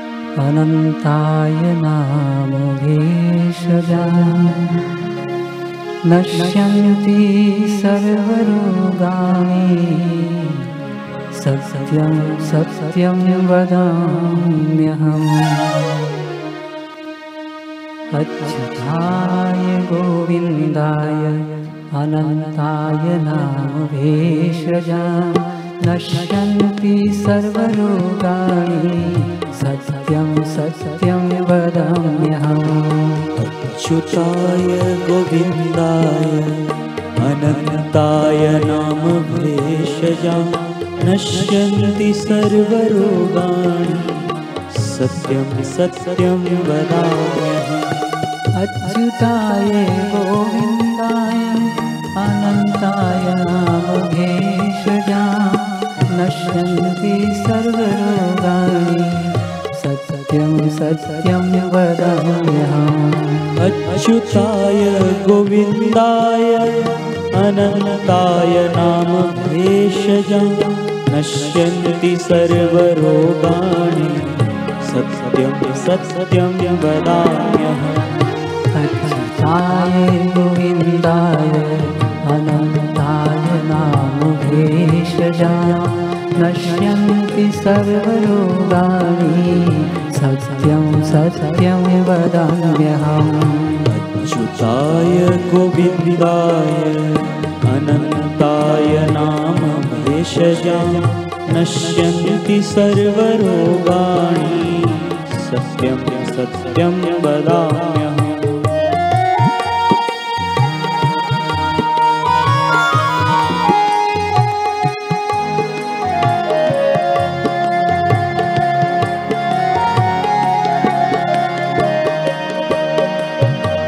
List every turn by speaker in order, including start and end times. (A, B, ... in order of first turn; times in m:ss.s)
0:00.4-0:05.0 A
0:06.0-0:16.2 A
0:18.1-0:33.4 A
0:33.4-0:48.0 B
0:48.5-1:03.6 A
1:03.6-1:18.0 B
1:18.7-1:33.9 A
1:33.8-1:48.8 B